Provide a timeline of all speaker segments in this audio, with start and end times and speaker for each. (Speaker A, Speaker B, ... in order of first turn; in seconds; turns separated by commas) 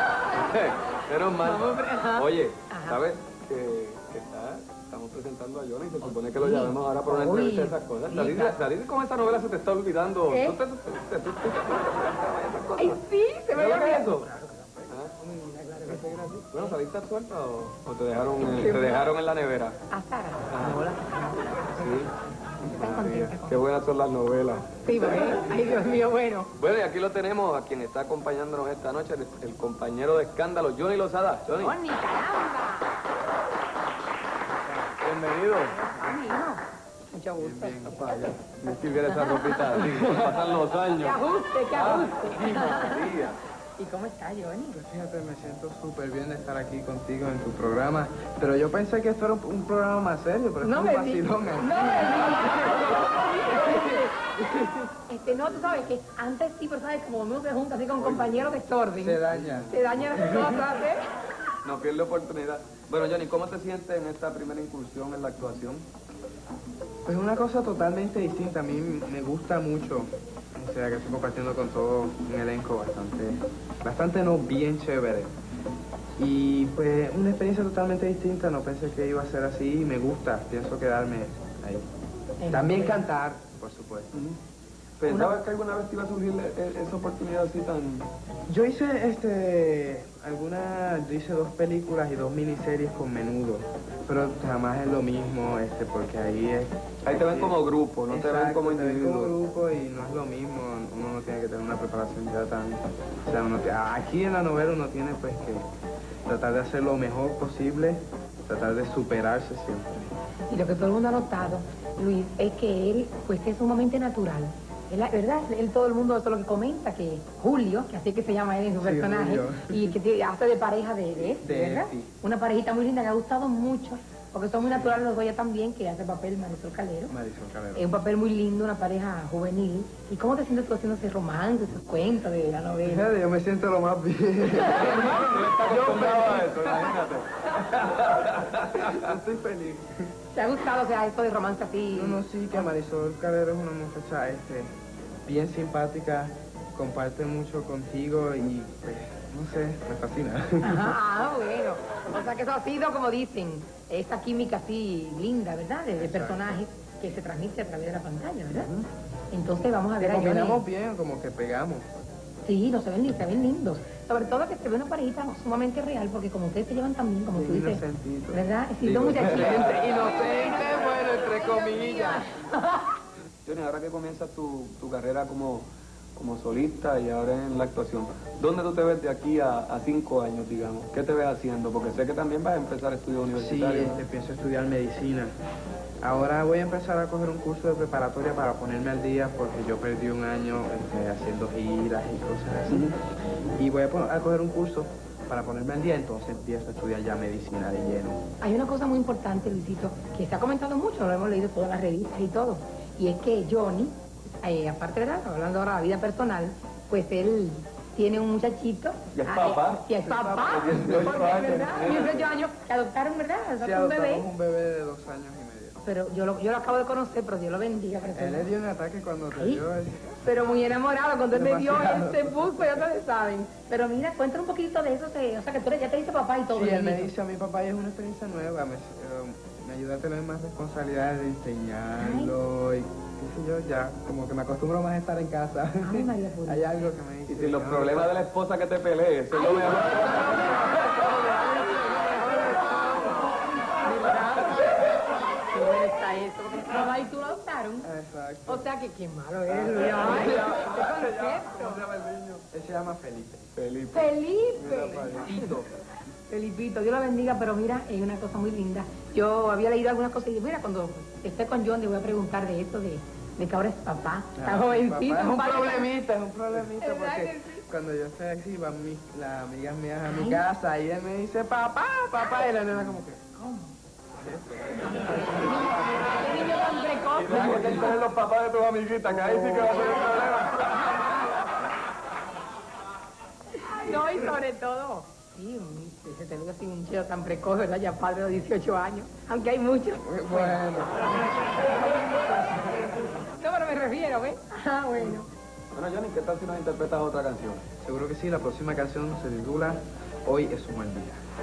Speaker A: 0.2-13.0, Speaker B: 1.4-3.0, Speaker B: 6.3-8.6, Speaker B: 10.3-10.6, Speaker B: 12.8-16.8, Speaker A: 13.5-14.3, Speaker A: 14.9-15.1, Speaker A: 15.8-19.8, Speaker B: 18.4-19.1, Speaker B: 19.9-21.6, Speaker A: 20.5-20.8, Speaker A: 21.7-25.5, Speaker B: 22.6-23.7, Speaker B: 24.8-26.5, Speaker A: 26.6-31.8, Speaker B: 31.5-32.9, Speaker A: 35.0-35.8, Speaker B: 35.7-38.2, Speaker C: 37.4-38.1, Speaker A: 38.0-43.4, Speaker B: 39.1-39.8, Speaker C: 39.7-40.5, Speaker B: 41.0-43.2, Speaker B: 43.8-44.8, Speaker C: 44.7-52.7, Speaker B: 50.6-54.2, Speaker C: 53.6-54.8, Speaker B: 55.1-61.0, Speaker A: 55.5-55.9, Speaker A: 58.0-58.6, Speaker C: 59.0-60.6, Speaker A: 59.3-60.2, Speaker A: 61.6-65.9, Speaker C: 67.0-75.3, Speaker C: 76.2-81.9, Speaker B: 82.4-83.0, Speaker C: 82.5-84.1, Speaker A: 84.1-84.4, Speaker A: 85.0-88.1, Speaker B: 85.1-85.3, Speaker C: 88.5-105.7, Speaker A: 97.1-99.3, Speaker C: 106.3-110.1, Speaker B: 110.5-127.1, Speaker C: 118.8-120.0, Speaker C: 121.4-122.1, Speaker C: 124.6-125.0, Speaker C: 127.1-127.8, Speaker B: 127.7-133.1, Speaker C: 132.8-137.0, Speaker B: 134.6-134.9, Speaker A: 134.6-139.1, Speaker C: 137.8-140.0, Speaker B: 140.3-142.7, Speaker C: 141.9-151.0, Speaker B: 150.6-158.7, Speaker C: 156.0-156.6, Speaker C: 158.5-158.9, Speaker B: 159.3-160.6, Speaker C: 160.0-161.9, Speaker B: 162.4-172.9, Speaker C: 167.3-172.3, Speaker A: 169.2-169.9, Speaker A: 173.4-184.0, Speaker C: 183.3-185.3, Speaker C: 186.0-193.0, Speaker C: 193.6-198.2, Speaker B: 198.4-214.3, Speaker A: 209.1-212.4, Speaker C: 210.0-211.7, Speaker C: 213.6-215.8, Speaker B: 215.8-218.5, Speaker C: 218.1-220.2, Speaker B: 219.3-219.7, Speaker B: 220.2-227.1, Speaker C: 221.3-222.9, Speaker C: 226.5-238.2, Speaker B: 232.0-232.3, Speaker B: 235.8-236.7, Speaker A: 237.3-240.6, Speaker B: 239.3-247.9, Speaker C: 247.8-248.7, Speaker B: 248.5-251.8, Speaker A: 249.6-252.4, Speaker C: 252.5-253.4, Speaker A: 253.6-255.7, Speaker B: 253.9-255.5, Speaker B: 256.3-265.9, Speaker C: 264.4-273.2, Speaker B: 266.8-267.6, Speaker B: 270.1-270.5, Speaker B: 273.3-273.7, Speaker C: 274.1-276.3, Speaker B: 275.6-277.8, Speaker A: 277.1-281.2, Speaker C: 277.3-277.8, Speaker C: 279.0-279.9, Speaker B: 283.5-290.8, Speaker C: 290.0-291.6, Speaker B: 291.5-295.3, Speaker A: 295.7-297.6, Speaker C: 297.8-301.2